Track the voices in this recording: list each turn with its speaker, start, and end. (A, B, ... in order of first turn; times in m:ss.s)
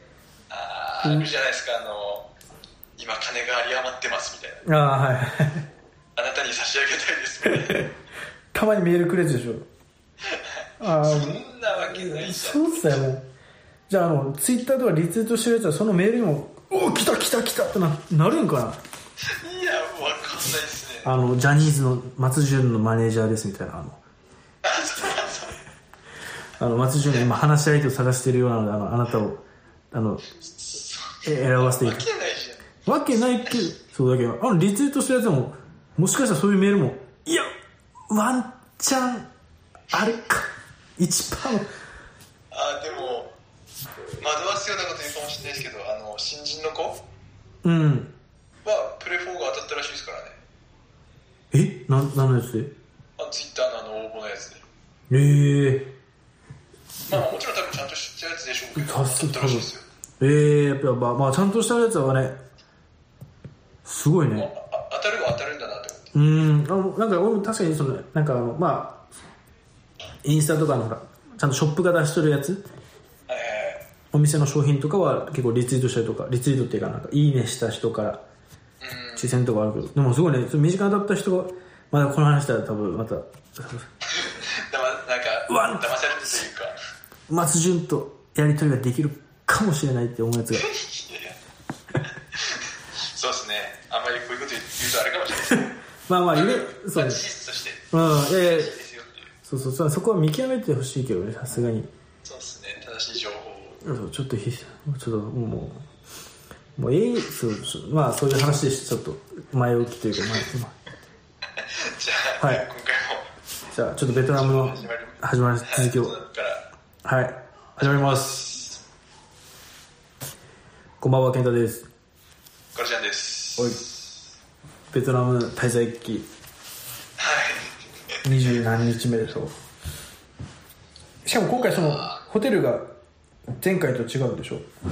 0:00.5-0:02.3 A
0:01.0-0:01.3 B
0:03.0-0:04.6 A
0:04.7-0:05.7 B
0:06.2-0:07.9 A
0:07.4-0:07.9 B
0:08.5-0:09.7 B
0:10.2-0:13.1 A
0:10.8-0:13.3 B
0:13.9-0:18.8 B
0:19.3-0:21.1 A
0:21.0-0:24.0 B
0:24.6-0:25.6 A
0:26.6-0:30.2 B
0:30.5-0:33.6 A
0:31.2-0:32.0 B
0:32.8-0:37.5 B
0:38.1-0:39.3 B
0:39.9-0:41.7 B
0:42.5-0:43.3 A
0:44.2-0:47.0 A
0:47.6-0:48.1 B
0:48.6-0:50.4 A
0:51.5-0:52.7 B
0:53.2-0:54.6 A
0:55.1-0:55.9 B
0:57.1-0:59.9 A
0:58.8-1:02.4 B
1:03.8-1:04.5 B
1:04.3-1:06.2 A
1:06.1-1:09.0 B
1:10.2-1:12.6 B
1:13.3-1:13.8 A
1:14.1-1:18.2 B
1:18.8-1:19.4 A
1:19.2-1:23.9 B
1:24.1-1:26.8 A
1:25.5-1:26.4 B
1:27.3-1:30.7 B
1:30.5-1:31.4 A
1:32.3-1:35.7 A
1:36.1-1:37.2 B
1:36.3-1:39.3 A
1:37.9-1:38.8 B
1:39.5-1:41.9 B
1:42.2-1:43.8 A
1:43.8-1:45.8 B
1:46.8-1:50.7 B
1:51.6-1:53.3 A
1:52.4-1:52.7 B
1:53.7-1:56.2 B
1:54.1-1:56.7 A
1:57.0-1:58.4 B
1:57.8-1:58.8 A
2:01.0-2:01.9 B
2:02.7-2:04.1 A
2:04.9-2:06.3 B
2:07.2-2:07.7 A
2:08.2-2:09.5 B
2:11.2-2:12.9 B
2:11.5-2:12.2 A
2:13.6-2:14.7 B